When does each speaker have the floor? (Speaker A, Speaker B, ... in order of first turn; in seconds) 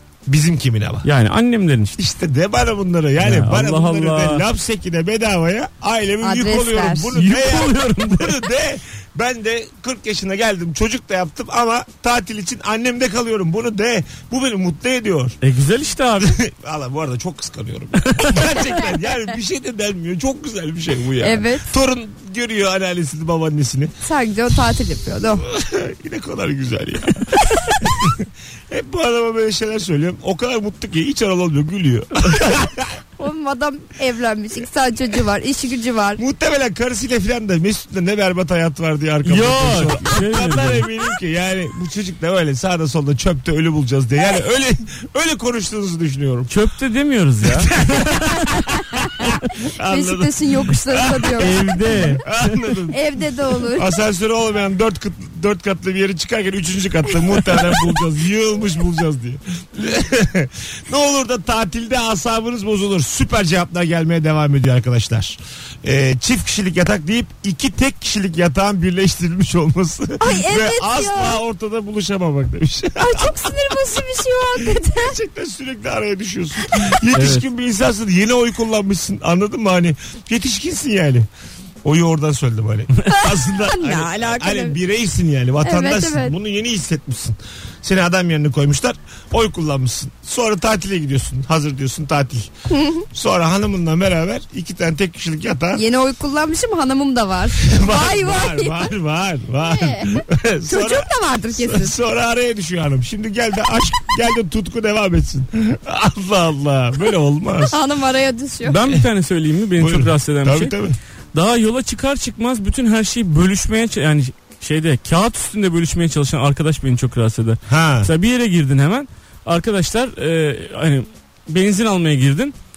Speaker A: 0.3-1.1, 2.0-15.4, 16.2-23.9, 25.4-33.0, 36.2-46.5, 47.4-53.0, 53.6-73.9, 74.6-81.3, 81.8-92.5, 93.1-95.8, 97.6-107.8, 109.8-111.0, 117.7-118.1
Speaker B: 1.0-2.0, 3.2-4.4, 7.1-8.4, 15.4-16.4, 18.0-18.4, 39.2-40.9, 46.5-48.6, 51.4-52.5, 77.1-77.5, 108.6-110.7, 111.3-122.5
Speaker C: 6.2-7.1, 21.2-21.7, 24.0-25.4, 33.2-36.2, 49.8-51.6, 52.9-53.9, 70.2-71.4, 73.0-75.2, 83.1-84.8, 85.6-86.4, 92.7-93.1, 95.7-98.9, 99.6-102.0, 107.6-108.8